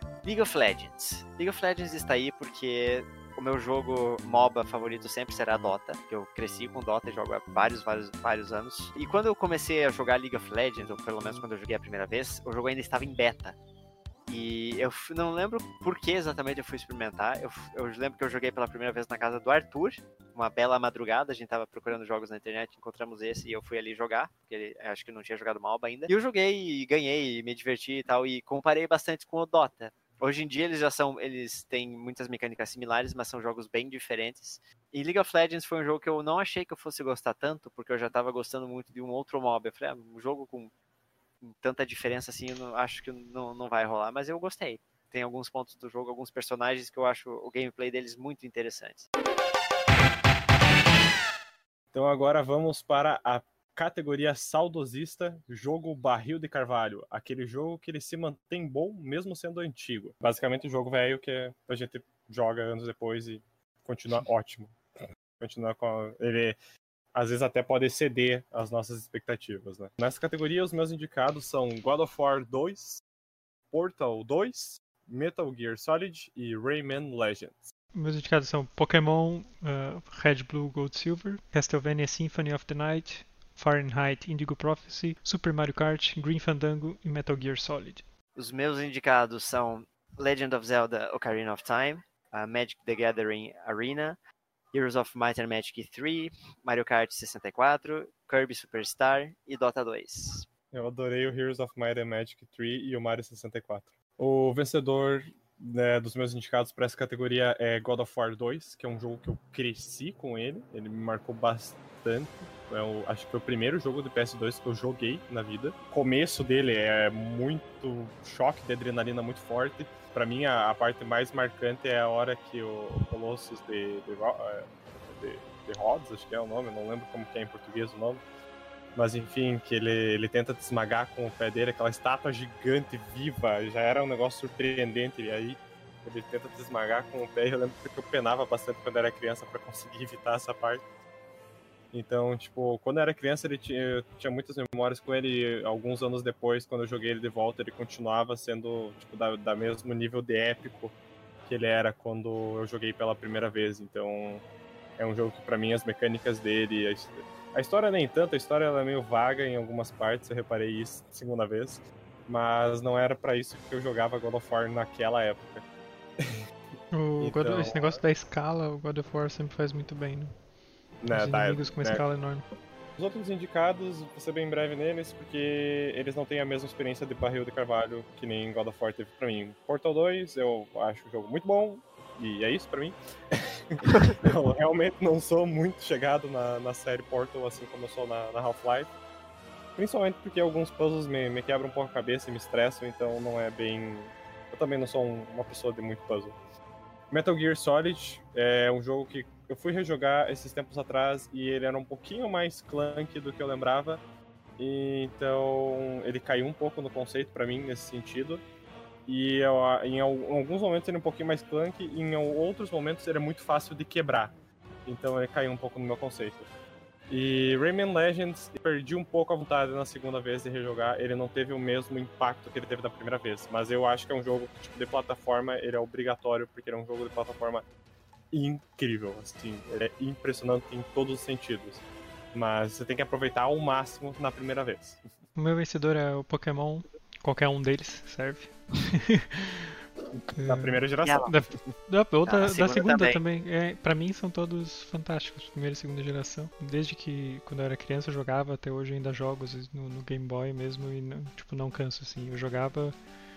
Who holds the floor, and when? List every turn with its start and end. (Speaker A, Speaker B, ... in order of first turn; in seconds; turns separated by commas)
Speaker A: 0.2-13.6, Speaker A: 14.3-40.7, Speaker A: 41.4-49.1, Speaker B: 51.9-64.8, Speaker B: 65.4-66.5, Speaker B: 67.1-73.0, Speaker B: 73.7-77.7, Speaker C: 77.9-88.0, Speaker A: 88.3-94.2, Speaker A: 94.7-100.5, Speaker B: 100.7-128.2, Speaker B: 128.9-140.8, Speaker B: 141.9-154.4, Speaker B: 155.0-165.6, Speaker C: 166.9-170.4, Speaker B: 167.2-168.0, Speaker B: 171.0-172.1, Speaker C: 171.1-172.4, Speaker B: 172.9-188.9, Speaker B: 189.8-196.4, Speaker B: 197.1-204.0, Speaker B: 204.6-208.4, Speaker B: 209.1-214.3, Speaker B: 214.8-216.5, Speaker B: 217.1-227.6, Speaker B: 228.3-235.0, Speaker C: 235.3-239.7, Speaker C: 240.3-252.9, Speaker B: 240.4-241.7, Speaker A: 241.0-241.3, Speaker A: 242.2-243.2